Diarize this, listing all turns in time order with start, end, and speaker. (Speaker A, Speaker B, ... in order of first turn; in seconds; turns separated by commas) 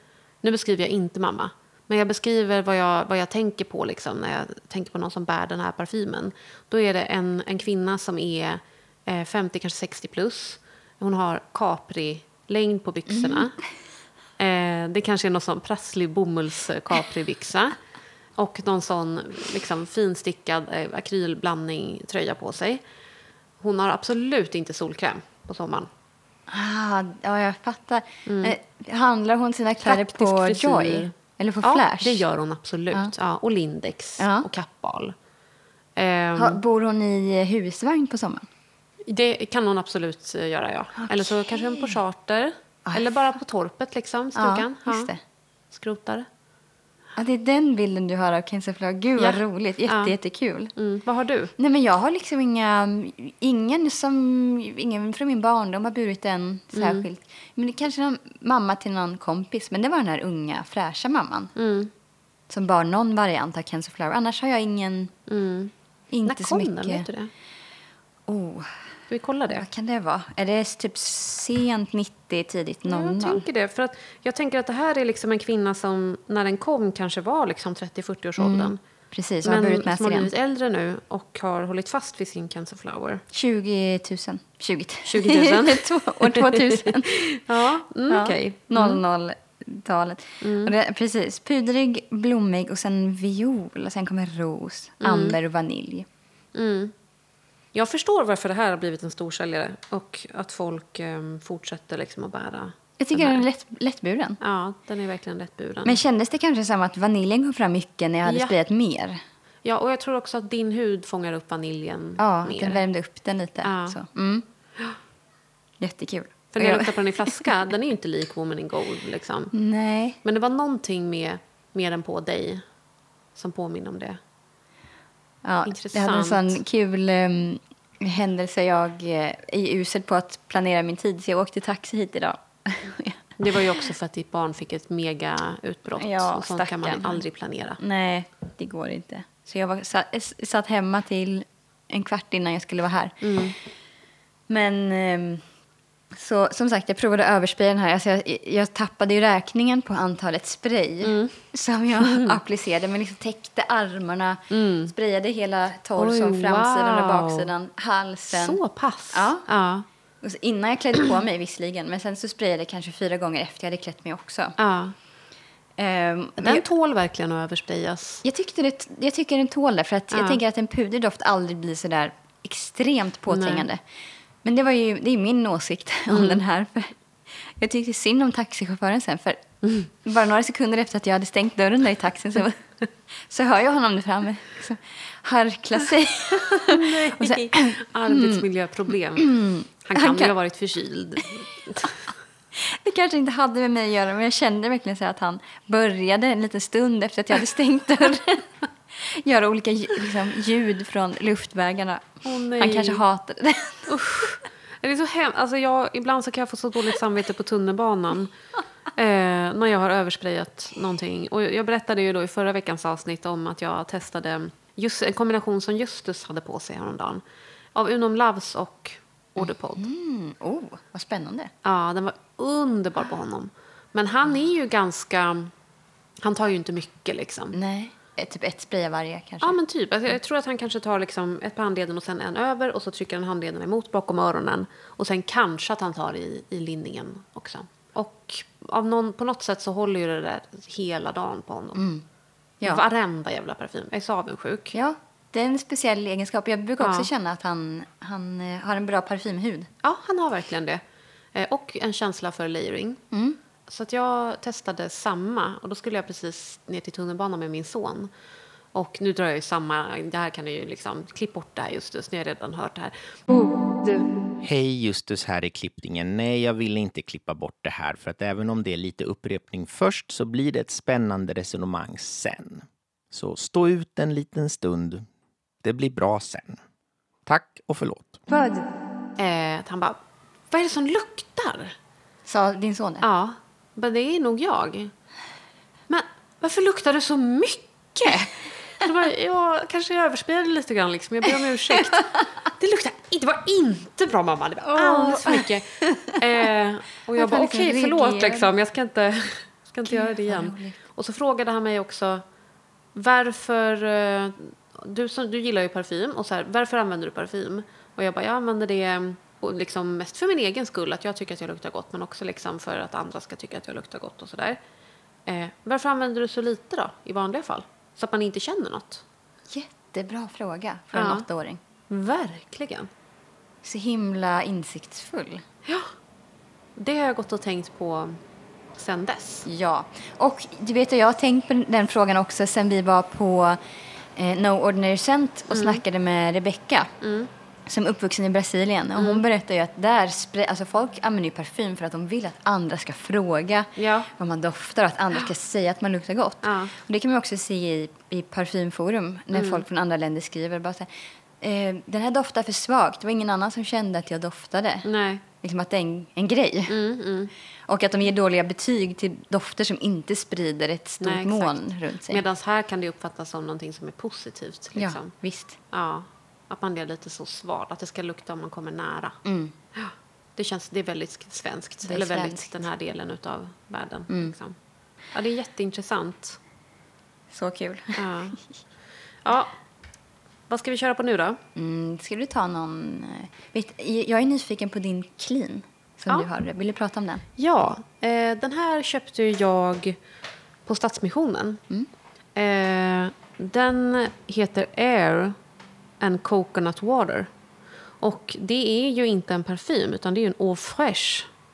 Speaker A: 0.4-13.6, Speaker B: 13.1-13.5, Speaker A: 14.4-17.8, Speaker A: 18.4-22.8, Speaker A: 23.6-25.9, Speaker B: 26.5-32.2, Speaker A: 28.2-28.5, Speaker A: 29.8-35.1, Speaker B: 34.2-34.5, Speaker A: 36.0-36.6, Speaker B: 36.4-38.5, Speaker A: 39.0-45.1, Speaker B: 41.0-42.0, Speaker B: 42.9-43.2, Speaker B: 44.3-45.2, Speaker A: 45.7-46.3, Speaker B: 47.1-50.7, Speaker A: 49.2-50.1, Speaker A: 50.8-51.5, Speaker B: 51.6-61.5, Speaker A: 56.7-57.0, Speaker A: 61.5-61.9, Speaker B: 62.5-65.1, Speaker A: 65.3-65.7, Speaker B: 66.1-67.1, Speaker A: 66.2-67.3, Speaker B: 68.3-68.9, Speaker A: 69.1-69.6, Speaker B: 69.5-73.4, Speaker A: 72.8-78.8, Speaker B: 78.4-80.3, Speaker A: 79.4-83.2, Speaker B: 83.3-87.4, Speaker A: 85.0-89.0, Speaker B: 88.1-96.0, Speaker A: 90.4-90.7, Speaker A: 95.0-95.4, Speaker A: 96.5-96.9, Speaker A: 97.7-103.4, Speaker B: 103.0-104.4, Speaker A: 104.4-106.0, Speaker B: 105.8-109.2, Speaker A: 108.2-108.5, Speaker A: 109.6-112.8, Speaker B: 112.2-114.4, Speaker A: 113.6-114.0, Speaker B: 115.8-117.4, Speaker A: 116.5-119.5, Speaker B: 119.5-120.2, Speaker A: 120.2-122.6, Speaker A: 123.3-124.2, Speaker B: 125.4-133.8, Speaker A: 125.6-126.6, Speaker A: 133.4-137.8, Speaker B: 136.0-137.2, Speaker B: 137.8-143.5, Speaker A: 143.2-143.5, Speaker B: 144.5-145.4, Speaker B: 146.1-158.6, Speaker A: 151.0-151.4, Speaker A: 152.0-152.3, Speaker A: 154.5-154.9, Speaker A: 156.0-157.5, Speaker A: 158.3-159.8, Speaker B: 159.1-159.4, Speaker B: 160.2-164.6, Speaker A: 164.6-164.9, Speaker B: 165.8-166.7, Speaker A: 166.4-168.2, Speaker B: 168.2-173.8, Speaker A: 170.1-170.4, Speaker A: 173.3-173.7, Speaker B: 174.4-182.7, Speaker A: 176.1-176.4, Speaker B: 183.2-188.4, Speaker A: 186.6-189.3, Speaker B: 189.2-190.3, Speaker A: 189.8-192.0, Speaker B: 192.5-203.9, Speaker A: 202.2-203.0, Speaker A: 203.9-208.3, Speaker A: 208.9-217.2, Speaker A: 217.7-219.8, Speaker B: 219.4-221.5, Speaker A: 221.6-225.5, Speaker A: 226.2-227.6, Speaker B: 227.5-229.6, Speaker A: 229.4-241.8, Speaker B: 241.8-242.0, Speaker A: 242.6-244.7, Speaker B: 244.7-249.7, Speaker A: 246.8-247.1, Speaker A: 249.8-250.8, Speaker A: 251.3-253.0, Speaker B: 253.1-253.4, Speaker A: 253.7-258.1, Speaker A: 258.7-263.1, Speaker B: 263.3-264.1, Speaker C: 264.4-275.1, Speaker C: 275.6-276.6, Speaker C: 277.2-278.2, Speaker B: 278.3-278.6, Speaker A: 279.2-280.0, Speaker A: 280.5-281.7, Speaker B: 282.2-283.0, Speaker A: 283.0-284.9, Speaker A: 285.9-302.2, Speaker B: 291.4-292.2, Speaker B: 294.7-296.2, Speaker B: 297.1-298.5, Speaker B: 299.8-300.8, Speaker A: 302.9-314.6, Speaker A: 315.2-319.0, Speaker B: 319.5-321.6, Speaker A: 320.9-321.2, Speaker A: 321.9-322.9, Speaker B: 323.6-325.4, Speaker A: 325.6-325.9, Speaker A: 326.7-328.2, Speaker A: 328.7-329.5, Speaker B: 329.4-333.6, Speaker B: 334.1-336.9, Speaker A: 335.5-335.8, Speaker A: 337.0-337.3, Speaker B: 337.7-354.9, Speaker A: 338.9-339.2, Speaker A: 343.8-344.1, Speaker A: 346.4-346.7, Speaker A: 349.3-349.6, Speaker A: 354.8-355.2, Speaker B: 355.4-356.8, Speaker A: 356.7-357.3, Speaker B: 357.7-362.2, Speaker A: 361.0-365.1, Speaker B: 364.7-365.6, Speaker A: 365.7-369.2, Speaker B: 369.2-369.5, Speaker A: 369.7-374.6, Speaker B: 371.8-372.6, Speaker B: 374.1-374.3, Speaker A: 375.1-376.4, Speaker B: 377.3-378.4, Speaker A: 377.9-378.4, Speaker A: 379.2-379.5, Speaker A: 380.5-381.4, Speaker B: 381.5-387.2, Speaker A: 387.4-390.0, Speaker A: 390.6-391.6, Speaker A: 392.3-395.4, Speaker A: 396.0-397.3, Speaker A: 398.0-401.3